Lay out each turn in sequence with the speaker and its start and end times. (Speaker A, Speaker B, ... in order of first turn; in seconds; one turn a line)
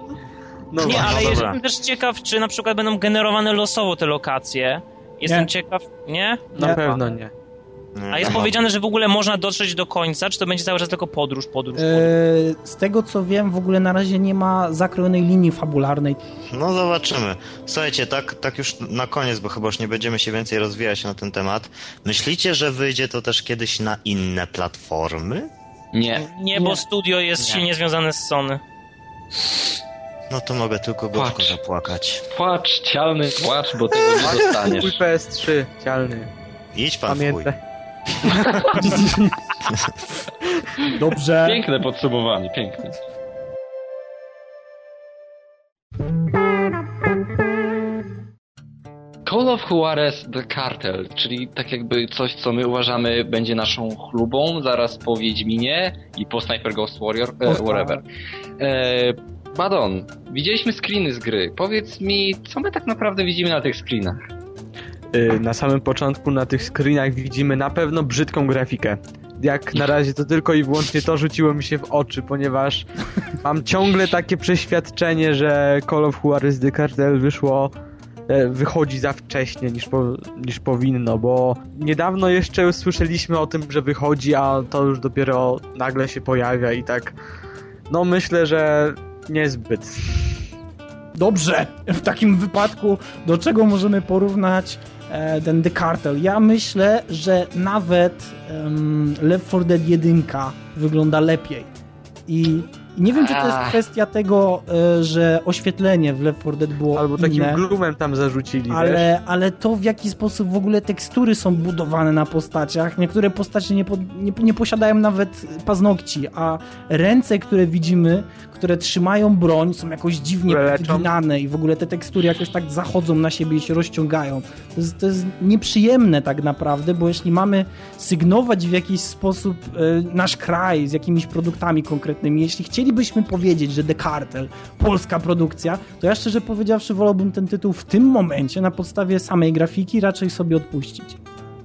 Speaker A: 0.7-1.5
Speaker B: 0.8-1.6
Speaker C: 0.8-6.5
Speaker A: 6.5-7.3
Speaker B: 8.0-8.6
Speaker C: 8.1-12.1
Speaker D: 11.8-16.2
Speaker B: 16.5-25.5
Speaker E: 25.9-26.8
Speaker C: 26.1-28.6
Speaker B: 30.3-32.2
Speaker E: 31.1-31.6
Speaker E: 32.3-35.0
Speaker A: 34.1-36.3
Speaker B: 36.7-37.5
Speaker A: 37.1-37.6
Speaker A: 38.2-39.3
Speaker D: 38.8-39.1
Speaker D: 40.9-41.6
Speaker E: 41.4-43.0
Speaker E: 49.2-58.0
Speaker D: 57.5-58.0
Speaker E: 58.6-64.3
Speaker A: 65.1-72.8
Speaker A: 73.4-77.7
Speaker A: 78.3-87.2
Speaker A: 87.9-90.3
Speaker D: 91.1-101.7
Speaker D: 102.3-107.6
Speaker E: 103.1-103.8
Speaker A: 106.9-109.1
Speaker D: 108.7-141.2
Speaker A: 120.5-121.1